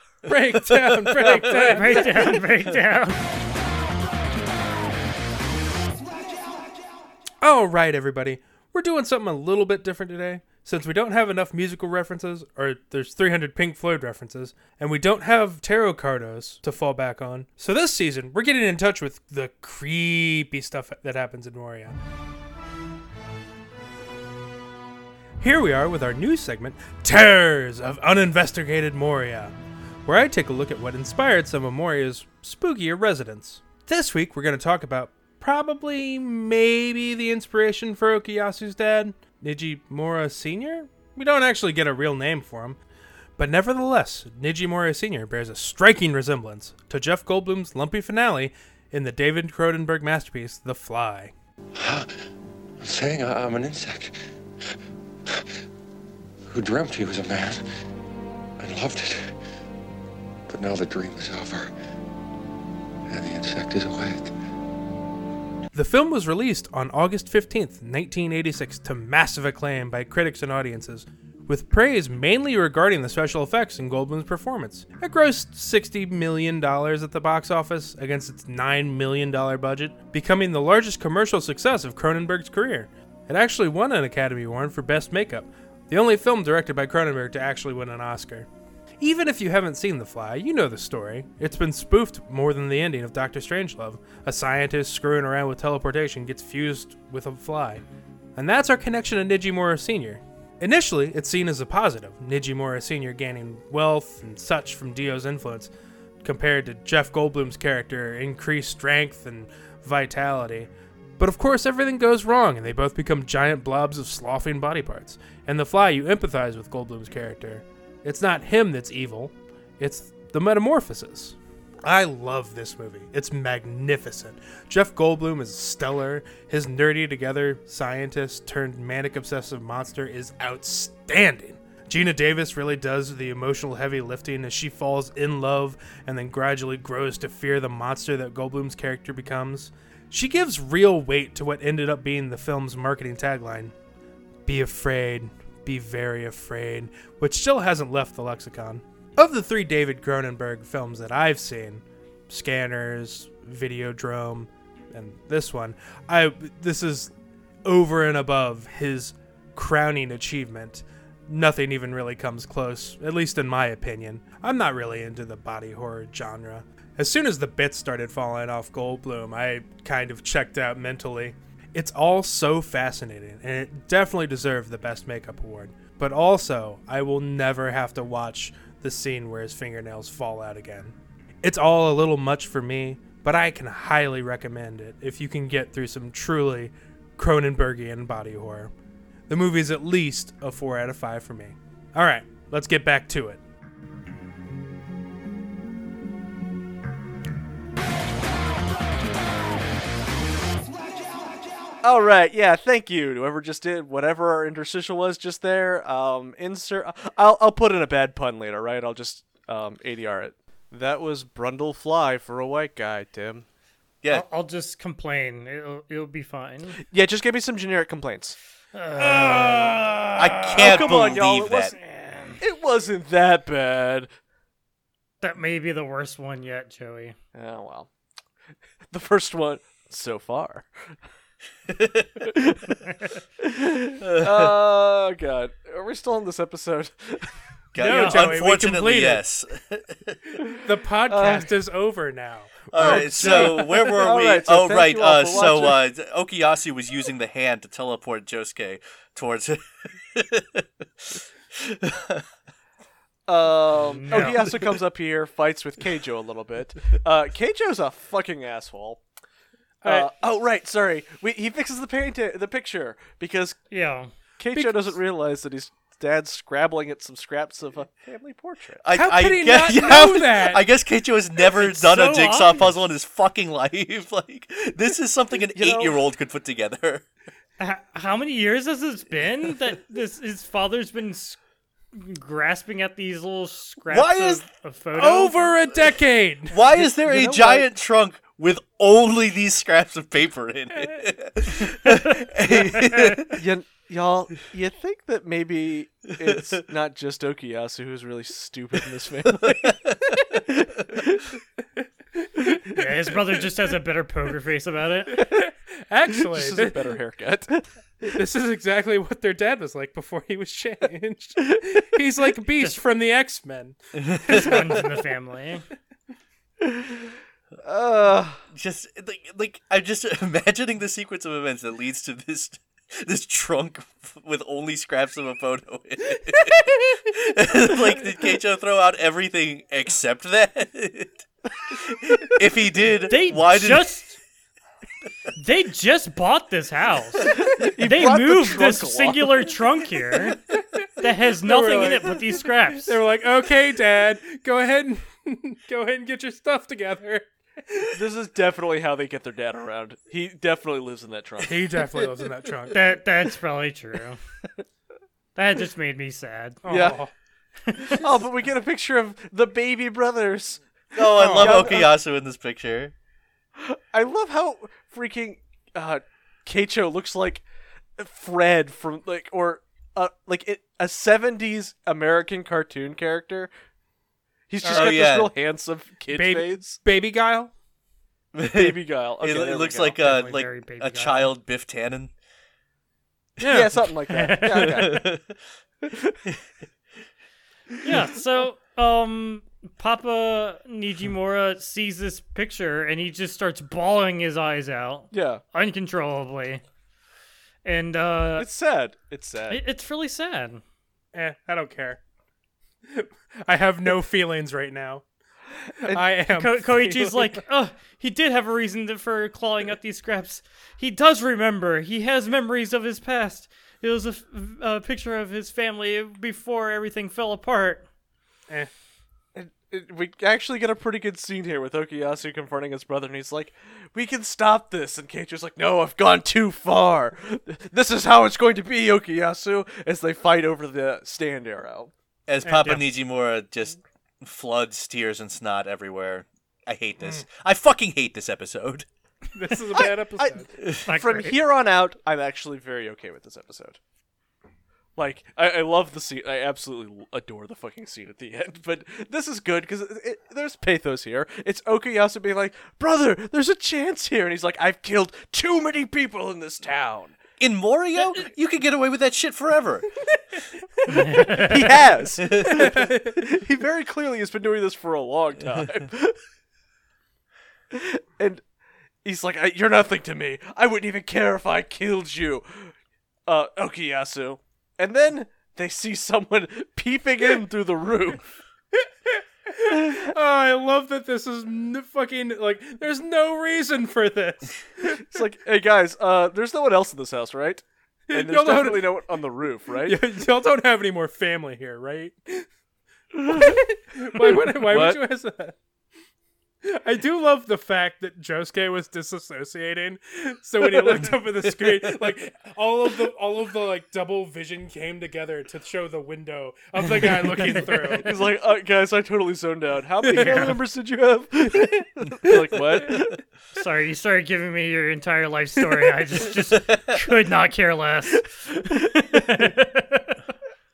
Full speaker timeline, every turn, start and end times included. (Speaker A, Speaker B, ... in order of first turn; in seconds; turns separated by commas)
Speaker A: 0.3-2.4, Speaker B: 0.7-1.8, Speaker C: 1.2-2.2, Speaker D: 1.6-3.2, Speaker A: 7.4-21.9, Speaker A: 25.4-29.5, Speaker A: 30.1-42.8, Speaker A: 43.4-51.3, Speaker E: 51.8-52.1, Speaker E: 52.8-54.2, Speaker E: 55.3-55.5, Speaker E: 56.5-57.6, Speaker E: 58.6-59.3, Speaker E: 60.5-61.7, Speaker E: 63.1-64.3, Speaker A: 65.7-88.5, Speaker A: 89.0-97.8, Speaker A: 98.3-105.7, Speaker A: 106.2-143.7, Speaker A: 144.4-157.1, Speaker A: 157.6-188.7, Speaker A: 189.3-193.4, Speaker C: 201.8-213.4, Speaker D: 214.1-216.8, Speaker C: 216.9-218.3, Speaker D: 218.7-221.0, Speaker A: 219.1-219.8, Speaker B: 220.2-221.7, Speaker C: 220.5-221.7, Speaker D: 221.7-222.4, Speaker C: 222.4-224.1, Speaker D: 225.2-227.2, Speaker C: 227.3-227.9, Speaker C: 228.9-230.9, Speaker B: 231.7-232.1, Speaker C: 232.2-232.8, Speaker C: 233.4-237.3, Speaker B: 234.0-234.5, Speaker B: 237.7-240.2, Speaker A: 237.8-239.2, Speaker D: 237.9-238.2, Speaker A: 240.6-243.6, Speaker C: 241.1-241.5, Speaker B: 242.7-252.2, Speaker C: 242.8-245.8, Speaker C: 253.3-259.0, Speaker D: 253.9-254.5, Speaker A: 259.8-260.1, Speaker C: 259.8-263.6, Speaker D: 263.7-264.1, Speaker C: 264.4-268.8, Speaker A: 264.5-264.9, Speaker B: 268.8-277.1, Speaker A: 268.9-270.6, Speaker D: 271.5-272.7, Speaker C: 275.5-276.0, Speaker D: 277.6-281.4, Speaker D: 281.9-285.6, Speaker B: 283.9-284.4, Speaker A: 284.9-286.6, Speaker B: 286.5-293.4, Speaker C: 286.7-287.7, Speaker D: 292.9-293.2, Speaker C: 293.3-301.3, Speaker B: 296.2-296.5, Speaker B: 299.5-300.1, Speaker A: 302.4-302.8, Speaker D: 302.7-305.2, Speaker A: 305.2-306.8, Speaker C: 306.1-307.6, Speaker A: 308.0-314.9, Speaker B: 313.9-314.6, Speaker D: 314.3-315.6, Speaker C: 316.6-318.4, Speaker B: 318.5-333.9, Speaker D: 333.1-334.2, Speaker D: 335.4-340.4, Speaker C: 337.2-339.6, Speaker D: 341.0-342.9, Speaker A: 341.4-348.0, Speaker C: 347.9-352.1, Speaker A: 351.4-352.8, Speaker D: 352.7-354.2, Speaker D: 355.3-356.6, Speaker A: 356.6-357.1, Speaker C: 356.7-357.0, Speaker D: 357.7-358.0, Speaker C: 357.9-361.9, Speaker B: 360.9-362.9, Speaker A: 361.1-361.8, Speaker C: 363.6-367.4, Speaker C: 368.0-373.5, Speaker C: 374.5-376.8, Speaker A: 374.6-375.0, Speaker B: 374.7-375.3, Speaker A: 376.1-377.5, Speaker B: 378.3-382.1, Speaker C: 378.4-380.0, Speaker D: 380.0-381.3, Speaker A: 383.4-383.7, Speaker C: 383.4-385.1, Speaker D: 384.1-385.0, Speaker B: 384.6-385.3, Speaker C: 385.8-386.2, Speaker D: 387.8-396.6, Speaker C: 395.1-395.4, Speaker D: 397.6-398.5, Speaker C: 398.4-399.6, Speaker D: 399.5-400.6, Speaker A: 401.1-402.0, Speaker A: 402.9-405.0, Speaker A: 405.8-407.4, Speaker D: 406.3-417.9, Speaker C: 419.3-431.9, Speaker B: 432.3-438.9, Speaker A: 432.4-432.8, Speaker A: 439.3-440.5, Speaker C: 439.7-443.8, Speaker D: 440.9-441.4, Speaker C: 445.0-457.2, Speaker B: 457.4-459.9, Speaker D: 460.9-461.8, Speaker C: 460.9-466.1, Speaker B: 462.2-462.7, Speaker A: 462.4-463.2, Speaker C: 467.7-468.4, Speaker C: 469.0-472.7, Speaker C: 473.3-478.2, Speaker A: 479.1-485.0, Speaker C: 479.6-480.1, Speaker C: 484.9-490.0, Speaker A: 488.1-488.9, Speaker A: 489.8-492.4, Speaker C: 493.1-495.0, Speaker A: 493.3-495.5, Speaker A: 496.6-508.1, Speaker D: 507.4-507.9, Speaker C: 507.9-513.2, Speaker A: 510.1-510.5, Speaker D: 510.1-510.6, Speaker D: 513.5-520.2, Speaker C: 518.3-519.2